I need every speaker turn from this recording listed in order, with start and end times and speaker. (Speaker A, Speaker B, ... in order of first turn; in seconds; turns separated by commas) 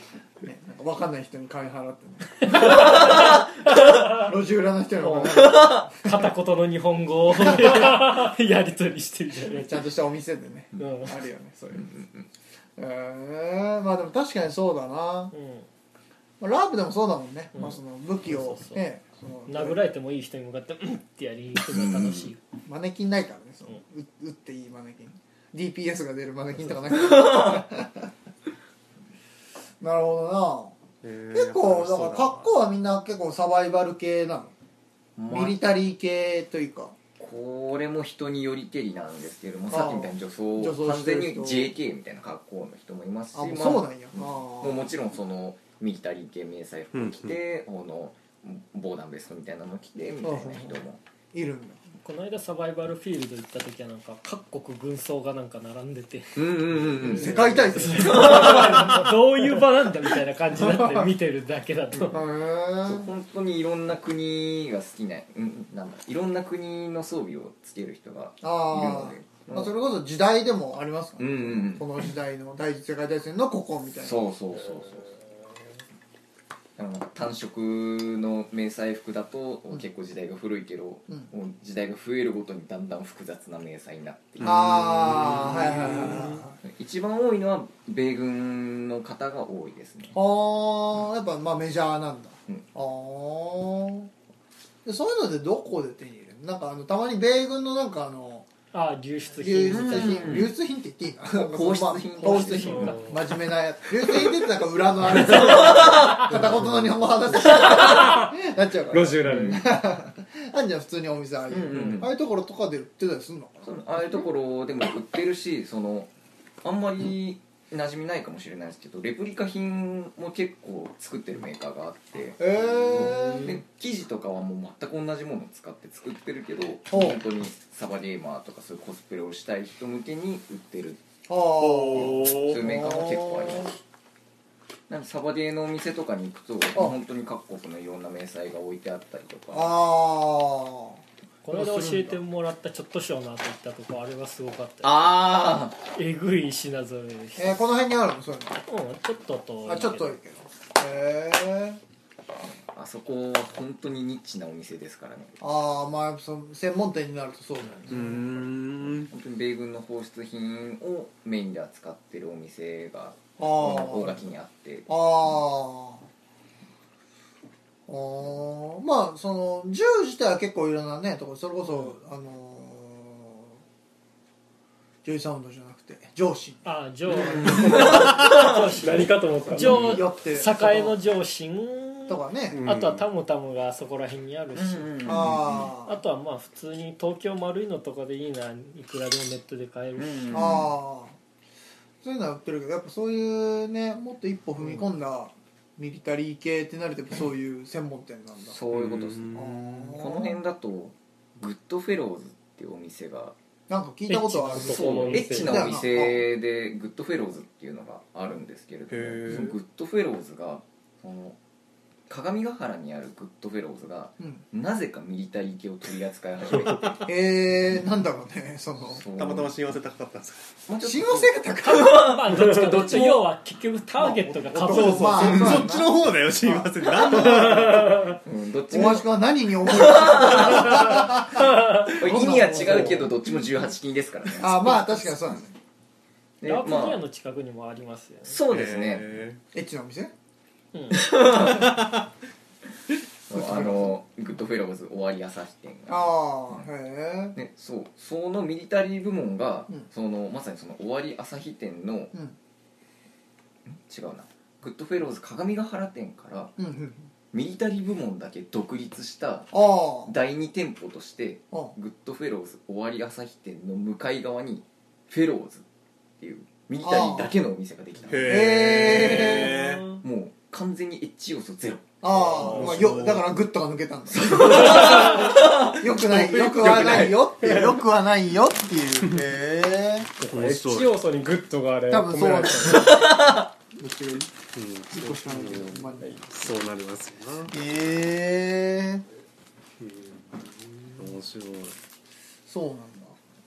Speaker A: 0.4-3.3, Speaker B: 2.5-4.2, Speaker A: 4.0-6.1, Speaker B: 5.0-9.8, Speaker C: 5.4-5.8, Speaker A: 7.4-7.8, Speaker A: 9.5-11.9, Speaker B: 10.8-11.2, Speaker C: 11.7-12.2, Speaker A: 12.8-15.3, Speaker B: 15.3-15.7, Speaker A: 16.4-19.8, Speaker B: 17.5-18.8, Speaker B: 19.5-22.4, Speaker C: 21.7-22.3, Speaker A: 22.6-28.1, Speaker C: 27.1-27.6, Speaker A: 29.8-30.7, Speaker D: 31.0-32.5, Speaker A: 31.3-34.5, Speaker C: 35.2-35.6, Speaker A: 35.3-37.0, Speaker C: 37.2-51.0, Speaker A: 39.7-41.7, Speaker A: 43.3-44.9, Speaker D: 46.9-47.4, Speaker A: 50.2-50.8, Speaker A: 51.3-51.8, Speaker B: 52.0-62.2, Speaker C: 56.3-58.9, Speaker A: 57.0-58.9, Speaker A: 60.5-61.1, Speaker A: 62.1-63.1, Speaker C: 62.8-69.7, Speaker A: 68.4-74.2, Speaker C: 71.2-71.9, Speaker C: 74.0-75.1, Speaker E: 74.7-75.1, Speaker C: 76.8-90.2, Speaker D: 84.4-86.1, Speaker A: 84.4-86.6, Speaker A: 90.1-94.1, Speaker A: 94.8-98.5, Speaker B: 98.7-100.3, Speaker A: 99.4-114.3, Speaker C: 99.7-100.5, Speaker C: 101.3-103.2, Speaker B: 102.3-103.1, Speaker E: 102.7-103.2, Speaker C: 105.2-106.3, Speaker E: 108.9-109.7, Speaker C: 109.2-109.7, Speaker C: 111.5-112.1, Speaker C: 113.6-116.1, Speaker C: 116.6-131.0, Speaker A: 122.4-123.6, Speaker D: 123.1-123.4, Speaker A: 126.9-127.2, Speaker A: 131.3-133.7, Speaker D: 131.6-132.6, Speaker C: 131.9-133.8, Speaker C: 134.9-139.8, Speaker A: 139.5-141.0, Speaker B: 141.4-145.2, Speaker D: 141.5-142.2, Speaker C: 144.8-145.8, Speaker B: 145.8-147.6, Speaker A: 147.4-148.6, Speaker B: 148.7-150.2, Speaker A: 149.6-151.8, Speaker C: 152.5-155.3, Speaker A: 155.4-158.2, Speaker C: 157.9-165.4, Speaker D: 157.9-159.1, Speaker A: 163.4-164.3, Speaker A: 164.9-166.1, Speaker A: 167.9-173.6, Speaker A: 175.0-178.0, Speaker B: 176.6-185.1, Speaker C: 177.2-178.6, Speaker E: 178.5-179.9, Speaker A: 179.5-180.9, Speaker A: 182.1-182.6, Speaker D: 182.5-183.0, Speaker C: 184.5-185.7, Speaker A: 185.0-186.0, Speaker B: 185.8-190.5, Speaker C: 190.0-190.7, Speaker A: 190.3-191.2, Speaker A: 192.0-198.6, Speaker C: 198.5-203.3, Speaker D: 198.7-199.8, Speaker A: 199.3-200.4, Speaker A: 203.7-206.2, Speaker E: 204.1-205.8, Speaker B: 204.2-204.6, Speaker C: 204.5-211.4, Speaker D: 208.9-209.6, Speaker C: 212.1-217.0, Speaker D: 216.7-216.9, Speaker A: 217.0-219.0, Speaker C: 218.9-219.5, Speaker D: 219.1-220.6, Speaker C: 220.7-223.2, Speaker A: 220.8-222.0, Speaker B: 221.7-225.5, Speaker A: 224.0-227.5, Speaker D: 224.6-228.2, Speaker C: 225.2-225.7, Speaker B: 227.1-228.2, Speaker C: 228.2-234.9, Speaker A: 228.7-233.1, Speaker A: 234.4-235.6, Speaker C: 236.4-237.0, Speaker B: 236.4-238.4, Speaker C: 238.2-239.1, Speaker D: 238.5-239.4, Speaker A: 239.5-240.1, Speaker B: 240.7-241.0, Speaker C: 240.9-241.7, Speaker D: 241.1-242.0, Speaker C: 243.3-246.7, Speaker A: 243.3-243.9, Speaker A: 245.9-247.3, Speaker C: 247.3-252.1, Speaker C: 253.7-256.5, Speaker A: 256.6-257.1, Speaker C: 257.3-265.6, Speaker A: 259.5-260.1, Speaker C: 266.2-272.7, Speaker A: 266.8-267.3, Speaker D: 268.1-270.0, Speaker A: 268.2-269.5, Speaker A: 272.0-280.1, Speaker D: 272.2-273.3, Speaker C: 274.1-275.9, Speaker D: 274.4-274.7, Speaker D: 276.2-277.2, Speaker E: 277.4-277.7, Speaker E: 280.2-283.1, Speaker D: 280.2-281.0, Speaker A: 281.9-283.1, Speaker C: 282.8-283.5, Speaker D: 284.4-287.5, Speaker A: 284.9-286.2, Speaker E: 286.0-286.2, Speaker A: 287.5-289.0, Speaker D: 290.9-291.8, Speaker A: 292.4-293.2